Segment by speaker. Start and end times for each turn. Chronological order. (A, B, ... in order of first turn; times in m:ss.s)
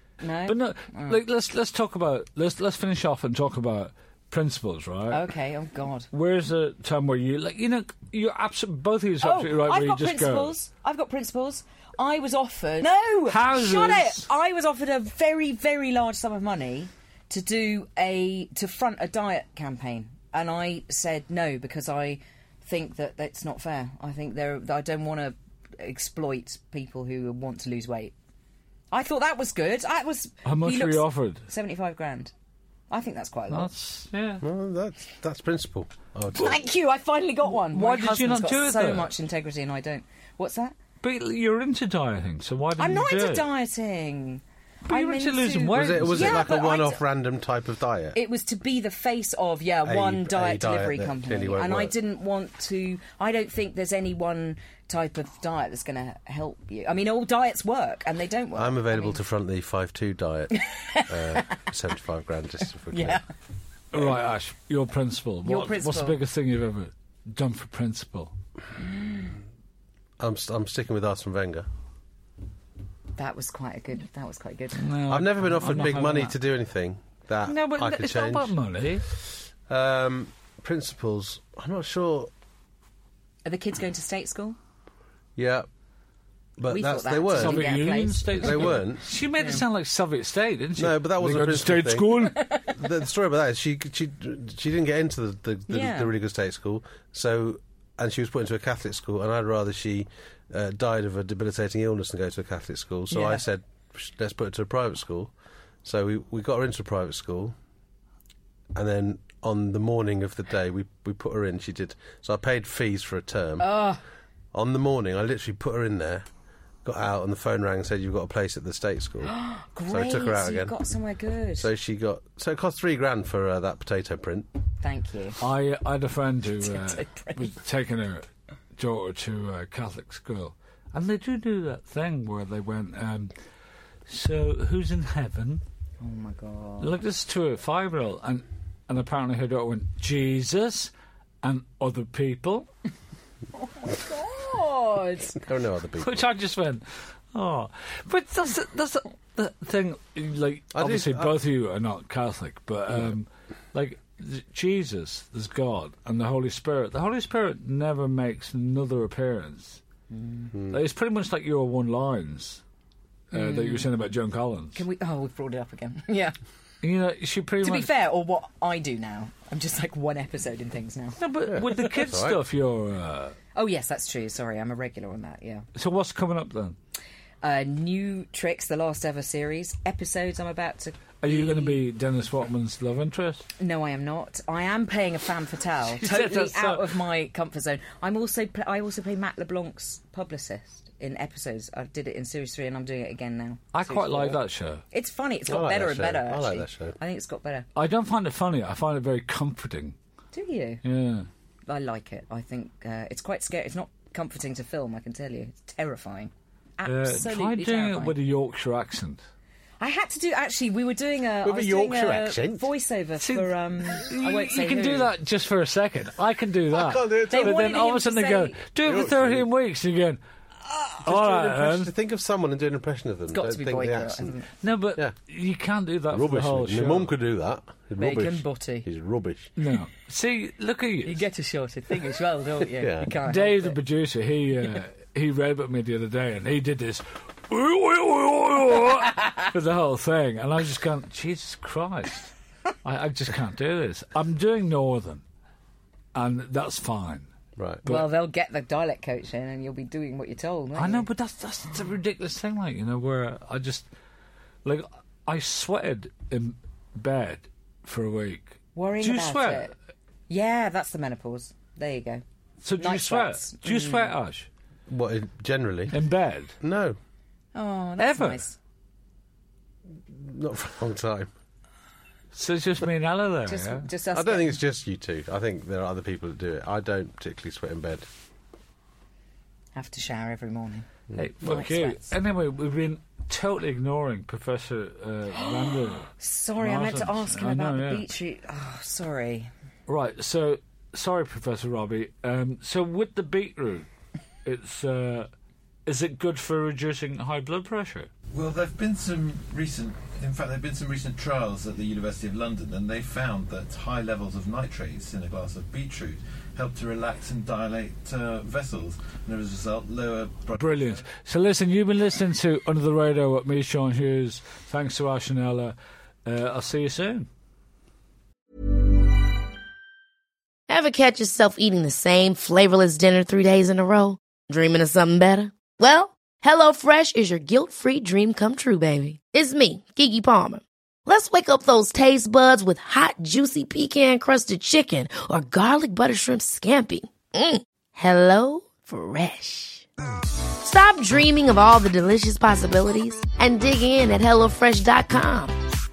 0:00.2-0:01.2 A
0:00.5-0:05.3 B
0:05.1-0:06.1 A
0:06.1-0:10.5 B
0:09.2-0:28.1 A
0:13.3-0:14.2 B
0:28.9-0:32.3 A
0:30.4-0:31.4 B
0:32.9-0:33.7 A
0:33.5-0:34.4 B
0:34.4-0:36.6 C
0:36.3-0:40.7 A
0:37.5-0:39.1 B
0:41.0-0:43.5 B
0:42.8-0:47.0 A
0:44.8-0:46.5 B
0:45.7-0:48.2 C
0:48.1-0:59.2 A
0:49.8-0:51.9 C
0:58.6-1:03.2 C
1:00.6-1:01.6 A
1:02.9-1:03.2 A
1:03.9-1:08.3 B
1:05.4-1:06.2 A
1:08.9-1:09.3 A
1:10.2-1:11.7 C
1:13.2-1:14.9 A
1:14.8-1:16.3 B
1:15.1-1:18.5 C
1:17.4-1:19.0 B
1:19.7-1:22.3 C
1:23.4-1:24.6 A
1:25.4-1:25.7 C
1:26.6-1:27.8 C
1:26.7-1:29.6 A
1:27.3-1:32.4 B
1:28.4-1:29.0 C
1:30.8-1:45.3 C
1:32.4-1:32.7 A
1:35.7-1:36.1 A
1:43.1-1:43.4 A
1:45.8-1:47.5 C
1:48.7-1:53.9 C
1:53.6-1:54.0 A
1:54.5-1:56.2 C
1:56.8-1:59.3 C
1:59.2-2:01.7 A
1:59.9-2:00.8 C
2:01.6-2:04.5 C
2:04.8-2:05.4 A
2:05.4-2:13.3 B
2:06.6-2:07.6 A
2:14.1-2:15.6 B
2:16.0-2:16.9 A
2:16.8-2:22.7 B
2:23.6-2:25.4 A
2:25.4-2:26.3 C
2:26.0-2:39.8 B
2:30.7-2:31.3 C
2:40.1-2:40.5 A
2:40.5-2:40.8 C
2:40.7-2:42.6 B
2:43.3-2:44.8 B
2:43.3-2:43.9 A
2:44.7-2:46.4 A
2:46.8-2:47.9 B
2:47.6-2:51.2 A
2:51.2-2:53.4 B
2:51.5-2:52.4 C
2:53.5-2:55.6 A
2:55.7-2:56.8 B
2:57.4-3:01.8 A
3:01.2-3:03.4 B
3:03.6-3:14.4 A
3:05.8-3:07.0 B
3:13.7-3:14.8 B
3:14.9-3:17.6 A
3:15.5-3:17.0 C
3:17.8-3:20.0 B
3:20.3-3:20.8 A
3:20.8-3:21.3 B
3:21.7-3:28.2 A
3:26.8-3:29.2 B
3:29.8-3:35.1 A
3:31.4-3:32.6 C
3:33.2-3:40.2 B
3:36.7-3:37.7 C
3:37.2-3:38.6 A
3:38.8-3:39.4 C
3:41.0-3:41.9 B
3:41.0-3:44.4 C
3:43.3-3:44.5 A
3:44.6-3:47.1 B
3:46.1-3:49.5 C
3:48.0-3:48.9 A
3:49.6-3:51.2 B
3:51.0-3:53.8 A
3:52.8-3:53.1 C
3:53.2-4:02.3 B
4:02.8-4:05.2 B
4:06.1-4:07.3 B
4:07.6-4:07.8 C
4:07.8-4:08.1 B
4:07.8-4:11.1 A
4:10.8-4:13.9 B
4:14.6-4:19.7 B
4:18.7-4:19.7 A
4:20.3-4:22.2 A
4:22.6-4:24.5 B
4:22.8-4:24.1 A
4:24.9-4:25.9 C
4:25.9-4:26.5 B
4:26.6-4:27.0 C
4:27.5-4:28.6 A
4:28.0-4:28.4 B
4:30.0-4:31.3 C
4:32.3-4:33.9 B
4:33.4-4:34.6 A
4:34.1-4:38.1 C
4:39.7-4:40.9 A
4:41.2-4:48.0 B
4:41.4-4:42.0 A
4:45.3-4:49.5 A
4:49.9-4:53.9 B
4:54.4-4:55.3 B
4:55.8-4:58.1 B
4:58.3-5:11.0 D
5:10.6-5:17.3 B
5:20.7-5:39.8 E
5:40.6-5:45.6 E